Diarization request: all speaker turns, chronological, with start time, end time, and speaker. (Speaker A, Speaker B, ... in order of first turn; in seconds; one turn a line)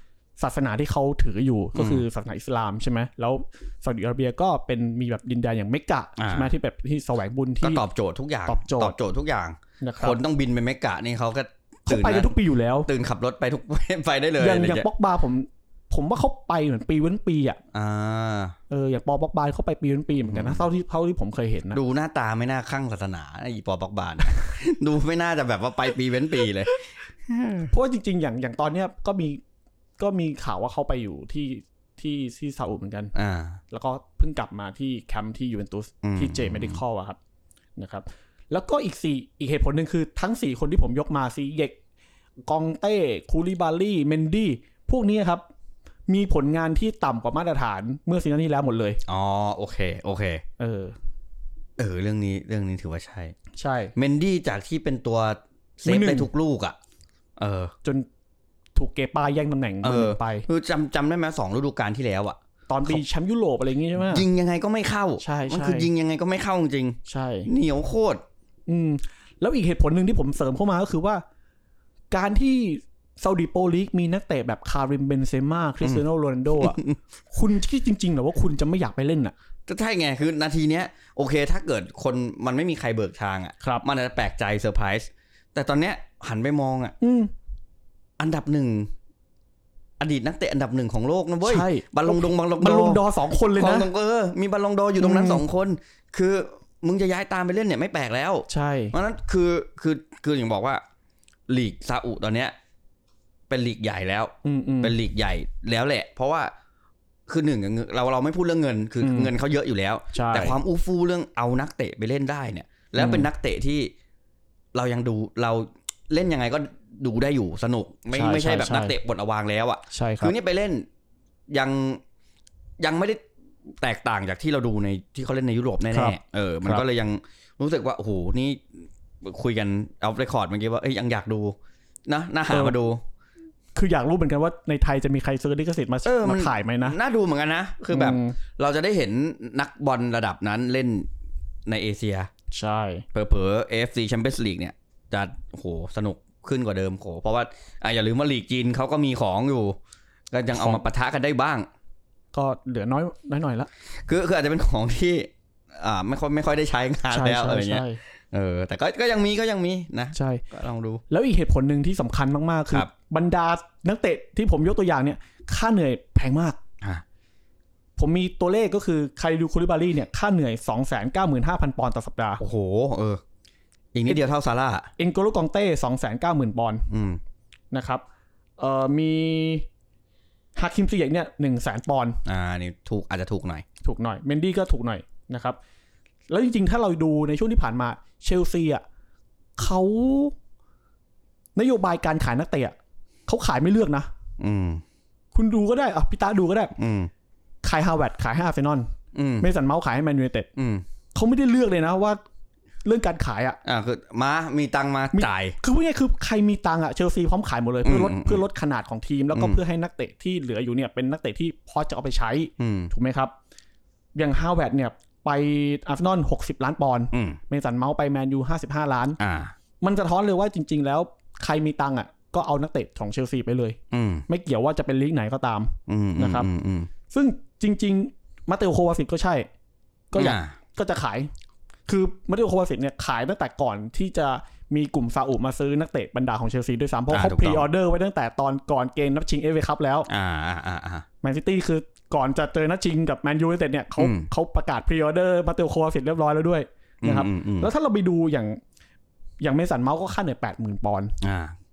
Speaker A: 0.4-7.8
Speaker B: 1.7-2.0
Speaker B: 6.2-6.5
Speaker B: 7.6-14.9
Speaker A: 8.4-9.0
Speaker A: 9.8-10.2
Speaker A: 11.9-12.9
Speaker A: 14.4-17.6
Speaker B: 17.7-18.5
Speaker A: 18.7-21.8
Speaker B: 20.2-20.6
Speaker B: 21.7-27.7
Speaker A: 27.7-29.4
Speaker A: 30.0-33.1
Speaker B: 33.1-33.6
Speaker A: 33.7-37.2
Speaker B: 36.0-36.8
Speaker A: 37.8-41.8
Speaker A: 42.4-45.5
Speaker A: 46.1-49.0
Speaker B: 49.0-50.4
Speaker A: 50.6-51.0
Speaker B: 51.8-53.3
Speaker A: 53.5-53.9
Speaker B: 54.0-56.8
Speaker A: 55.8-56.3
Speaker B: 57.4-57.7
Speaker A: 58.8-60.5
Speaker B: 59.8-63.0
Speaker A: 62.7-64.2
Speaker B: 64.0-68.2
Speaker A: 65.2-65.9
Speaker A: 67.0-67.5
Speaker A: 68.7-71.2
Speaker A: 72.1-79.3
Speaker B: 76.5-77.0
Speaker B: 79.7-86.9
Speaker A: 87.0-87.3
Speaker B: 88.2-88.9
Speaker B: 90.0-100.8
Speaker A: 91.4-93.9
Speaker A: 95.0-95.4
Speaker A: 98.5-99.0
Speaker B: 101.5-102.5
Speaker B: 103.5-106.5
Speaker A: 104.4-105.0
Speaker B: 107.3-113.9
Speaker A: 109.0-109.3
Speaker A: 110.1-110.6
Speaker A: 113.0-113.3
Speaker B: 114.7-120.8
Speaker A: 118.1-119.0
Speaker A: 119.9-120.3
Speaker B: 121.5-122.0
Speaker B: 122.8-123.2
Speaker B: 123.8-128.6
Speaker A: 125.9-126.8
Speaker B: 129.2-131.6
Speaker B: 132.1-133.0
Speaker A: 132.5-132.8
Speaker A: 133.7-137.0
Speaker B: 136.0-141.1
Speaker A: 137.9-138.4
Speaker B: 141.7-142.3
Speaker A: 142.5-143.0
Speaker B: 143.1-149.8
Speaker B: 150.3-151.7
Speaker A: 150.5-150.8
Speaker A: 152.3-153.7
Speaker B: 154.1-161.0
Speaker A: 157.1-158.0
Speaker A: 160.1-160.4
Speaker A: 161.1-166.6
Speaker A: 168.0-172.4
Speaker B: 172.4-173.2
Speaker B: 173.9-174.9
Speaker A: 175.0-176.9
Speaker B: 176.9-177.2
Speaker A: 177.7-178.0
Speaker A: 178.6-179.7
Speaker A: 180.5-182.2
Speaker B: 182.2-183.6
Speaker A: 183.8-185.6
Speaker A: 186.3-188.8
Speaker A: 189.6-190.3
Speaker A: 191.5-192.8
Speaker A: 193.3-194.1
Speaker B: 194.4-194.8
Speaker A: 195.3-196.7
Speaker B: 196.8-197.1
Speaker A: 197.6-198.9
Speaker B: 199.1-199.5
Speaker A: 199.4-200.5
Speaker B: 200.6-200.8
Speaker A: 201.1-202.2
Speaker A: 202.8-203.6
Speaker B: 203.6-205.6
Speaker A: 205.1-213.3
Speaker B: 207.8-208.4
Speaker B: 209.3-209.6
Speaker B: 212.6-212.9
Speaker A: 214.1-219.2
Speaker B: 217.1-217.4
Speaker B: 219.2-219.5
Speaker A: 219.8-226.5
Speaker B: 223.9-224.2
Speaker B: 225.9-226.9
Speaker A: 227.1-229.5
Speaker A: 230.1-231.3
Speaker B: 230.1-230.6
Speaker A: 231.8-240.1
Speaker B: 237.1-237.7
Speaker B: 240.1-241.1
Speaker A: 241.2-248.6
Speaker B: 244.0-244.3
Speaker B: 247.0-247.7
Speaker A: 249.4-251.2
Speaker B: 251.2-251.5